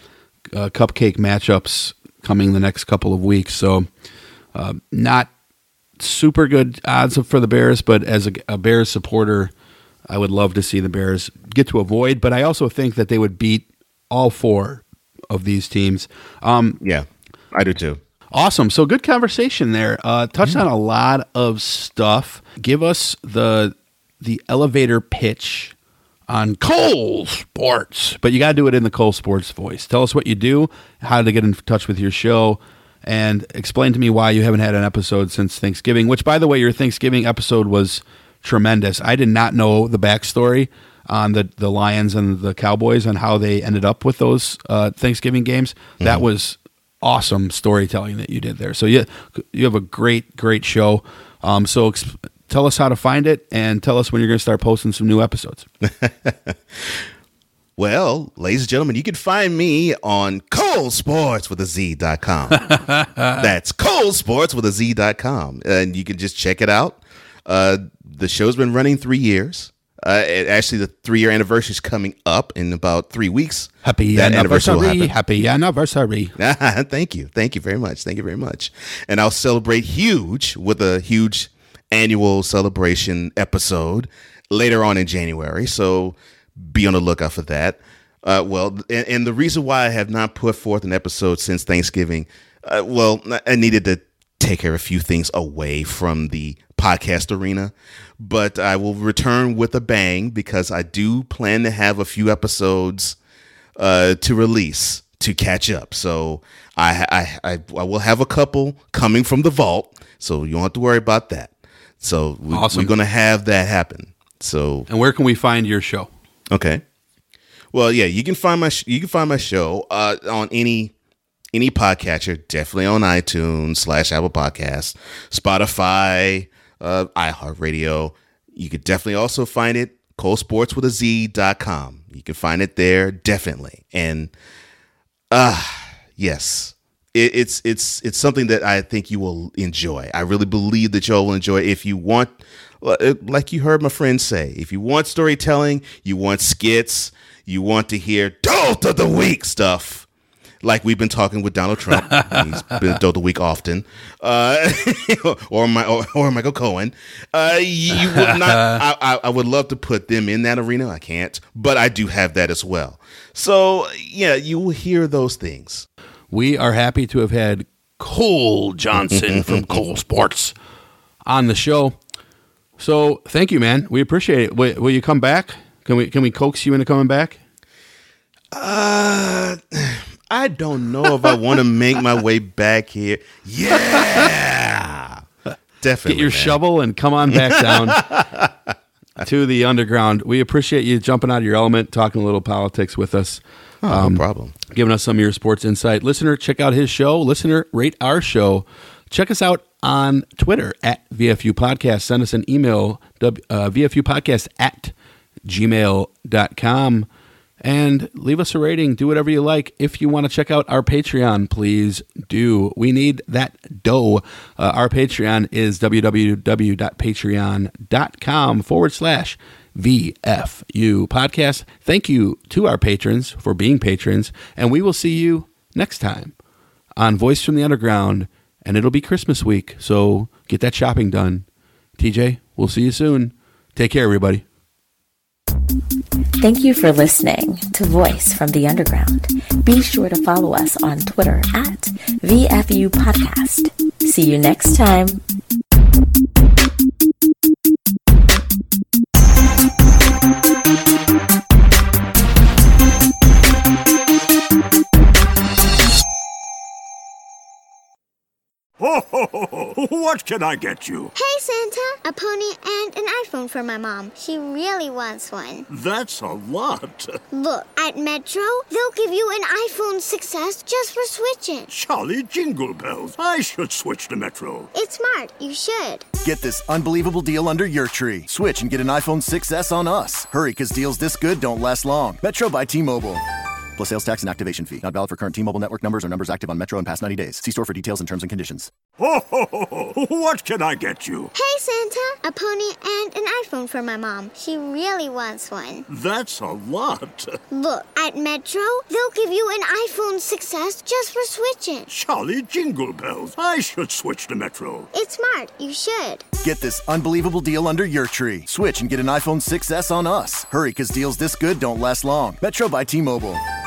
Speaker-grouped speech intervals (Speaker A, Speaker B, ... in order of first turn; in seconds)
Speaker A: 0.5-3.9, 4.5-5.3, 6.0-9.5, 10.1-16.8, 18.3-25.7, 26.3-55.7, 62.7-63.5, 73.8-76.3, 112.5-112.9, 114.9-116.1, 152.0-152.8, 158.1-158.8, 166.3-170.5, 171.3-172.0, 172.8-177.4, 186.1-188.0, 189.2-204.9, 205.5-207.1, 207.6-226.3, 227.0-231.5, 232.0-234.4
Speaker B: 16.8-18.0, 55.9-56.5, 57.8-62.6, 63.4-75.1, 76.4-103.2, 103.8-114.9, 116.5-116.8, 117.7-120.9, 121.5-134.3, 135.3-150.1, 150.6-165.9, 169.0-169.7, 178.5-185.2, 185.8-186.6, 187.3-188.5, 193.8-194.5
Speaker C: 236.4-245.2
Speaker D: 258.8-261.1, 265.7-267.2, 271.7-274.7, 289.0-291.3, 295.9-297.4, 301.9-304.9
Speaker E: 261.1-265.7, 267.3-271.7, 274.7-276.1, 291.3-295.8, 297.5-301.9, 304.9-306.2
Speaker F: 276.2-283.2, 283.8-288.7, 306.4-313.4